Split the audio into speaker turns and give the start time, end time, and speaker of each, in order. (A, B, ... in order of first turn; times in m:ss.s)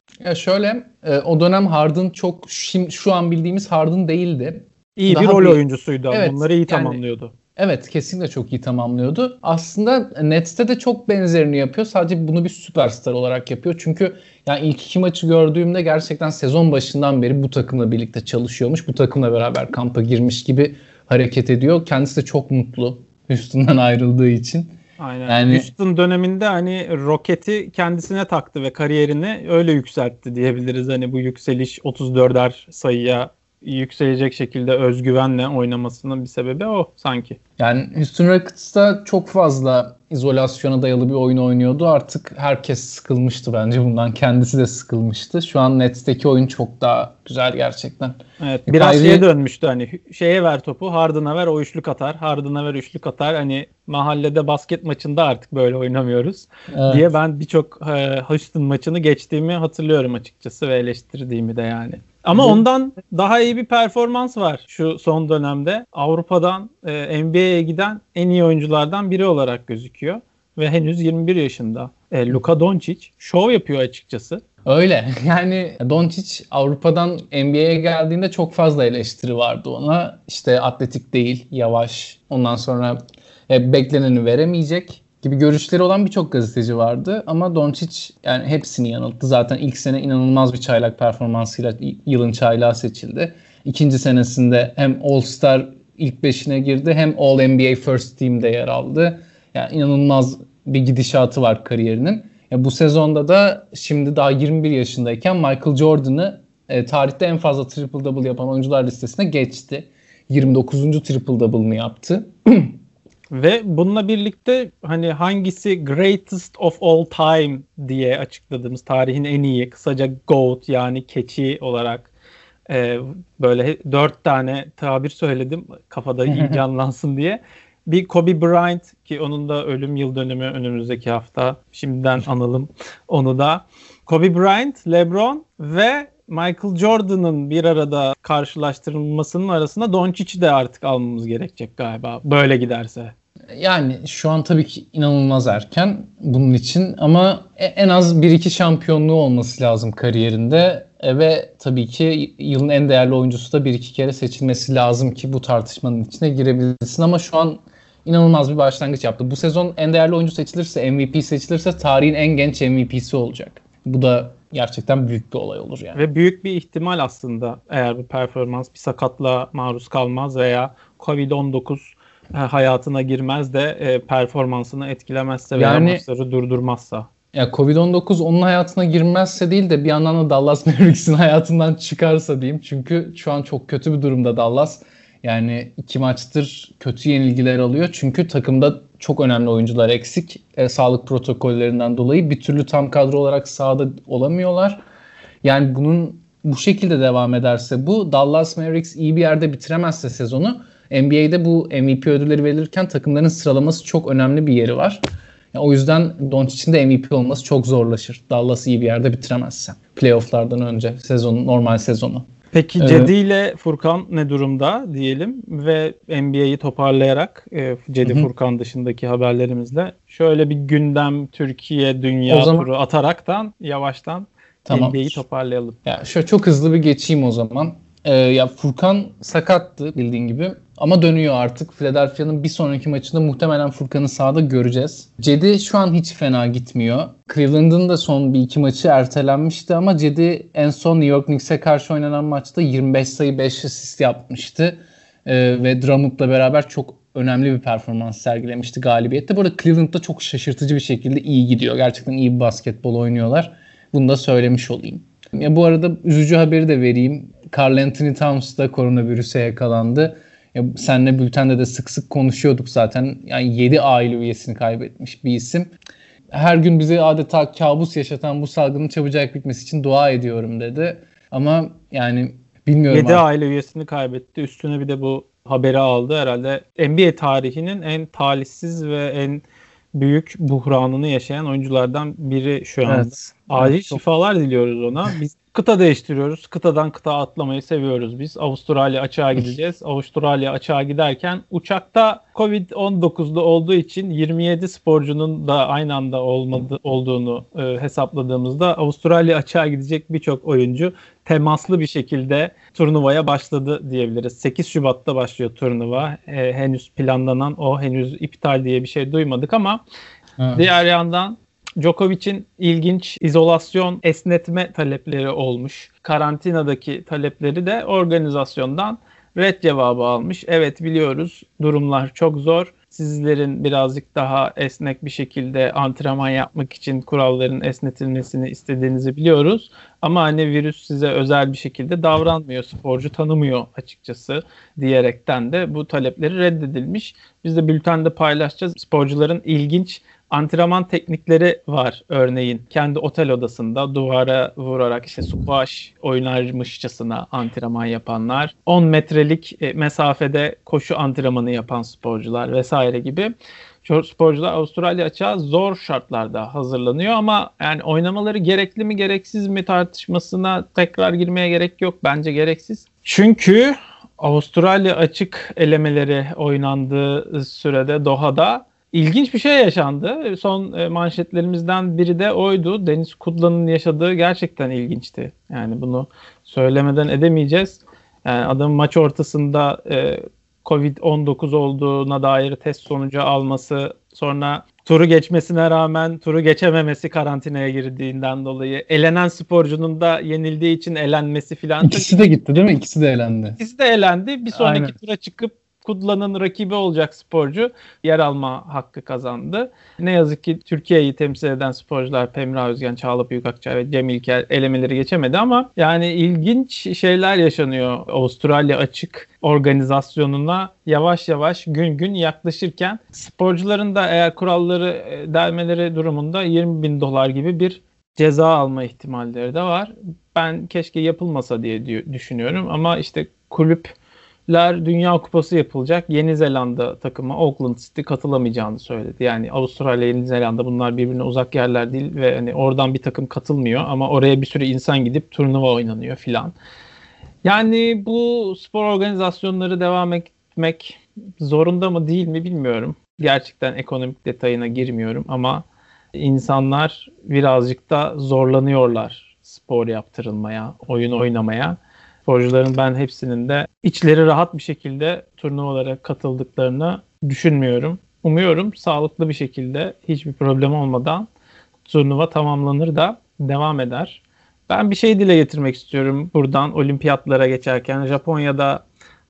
0:00.2-0:05.6 A
0:05.0-0:07.3 B
0:06.1-0:07.0 A
0:07.6-0:25.7 A
0:25.0-0:37.4 B
0:37.6-0:49.2 A
0:48.4-1:14.4 B
0:56.7-0:57.0 A
1:02.3-1:02.6 A
1:14.6-1:52.8 A
1:53.3-2:02.1 B
2:02.7-2:23.1 B
2:06.3-2:06.6 A
2:23.5-2:46.0 A
2:45.9-2:57.1 B
2:55.5-2:56.0 A
2:57.3-3:14.8 A
3:15.4-3:25.0 A
3:25.5-3:32.2 A
3:32.5-3:45.8 B
3:32.8-3:33.1 A
3:38.0-3:38.3 A
3:42.3-3:42.7 A
3:44.6-3:45.2 A
3:45.8-4:25.7 A
4:26.3-4:33.2 A
4:32.9-5:09.8 B
4:42.9-4:44.0 A
5:10.4-5:10.6 A
5:10.5-5:53.3 B
5:53.8-6:32.3 B
6:31.8-6:33.6 A
6:33.6-7:03.9 B
6:34.5-6:34.9 A
7:04.5-7:16.5 B
7:17.4-7:25.6 B
7:26.1-7:41.3 B
7:41.8-7:48.8 B